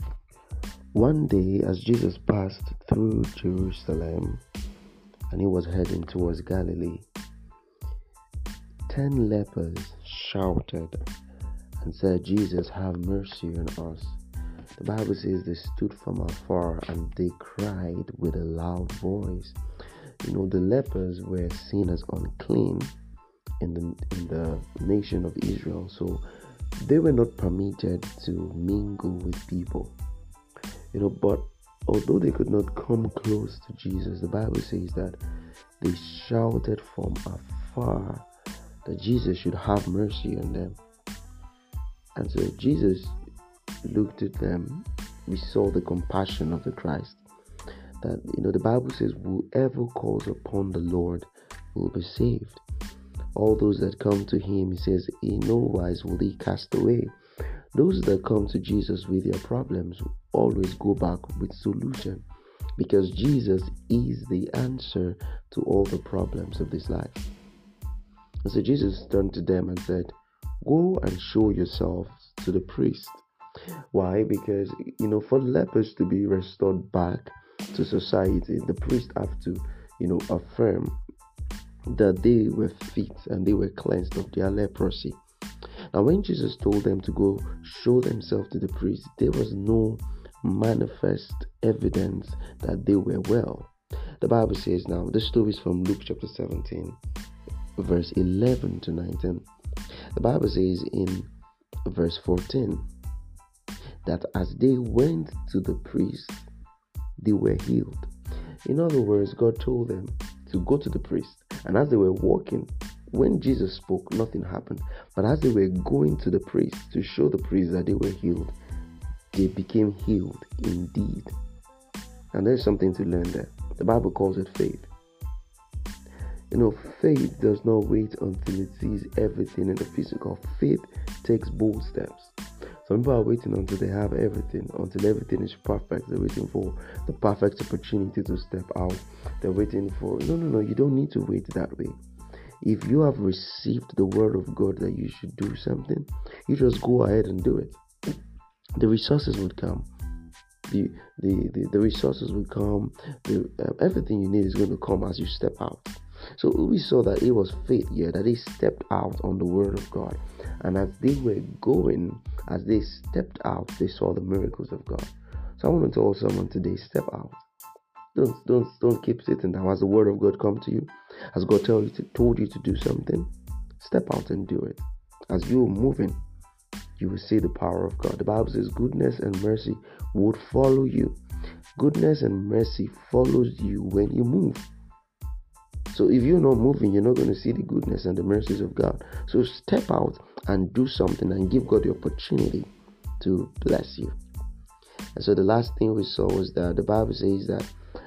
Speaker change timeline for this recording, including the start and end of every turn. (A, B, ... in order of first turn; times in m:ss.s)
0:00.9-0:04.4 A
0:05.3-0:07.1 A
0:08.9-0:11.0 A
0:11.8-0:14.2 A
0:14.8-0:19.6 A
0:20.2-0:22.9 A
0:23.6-0:26.2 A
0:26.8-0:30.0 A
0:30.9-0:35.2 A
0:35.8-0:38.2 A
0:38.8-0:40.8 A
0:42.2-0:43.2 A
0:43.8-0:47.2 A
0:48.0-0:52.6 A
0:53.3-0:57.1 A
0:57.7-1:02.2 A
1:02.8-1:07.2 A
1:08.4-1:13.2 A
1:13.9-1:21.0 A
1:21.9-1:25.2 A
1:25.9-1:37.0 A
1:37.8-1:39.4 A
1:40.1-1:41.3 A
1:41.8-1:42.8 A
1:44.0-1:46.5 A
1:47.2-1:48.1 A
1:48.6-1:58.6 A
1:59.3-2:01.3 A
2:02.3-2:04.9 A
2:06.5-2:12.3 A
2:12.8-2:22.0 A
2:22.6-2:27.8 A
2:28.8-2:29.9 A
2:30.7-2:47.4 A
2:48.1-2:56.2 A
2:57.0-3:01.2 A
3:01.8-3:04.7 A
3:05.9-3:12.7 A
3:13.2-3:14.2 A
3:15.2-3:17.7 A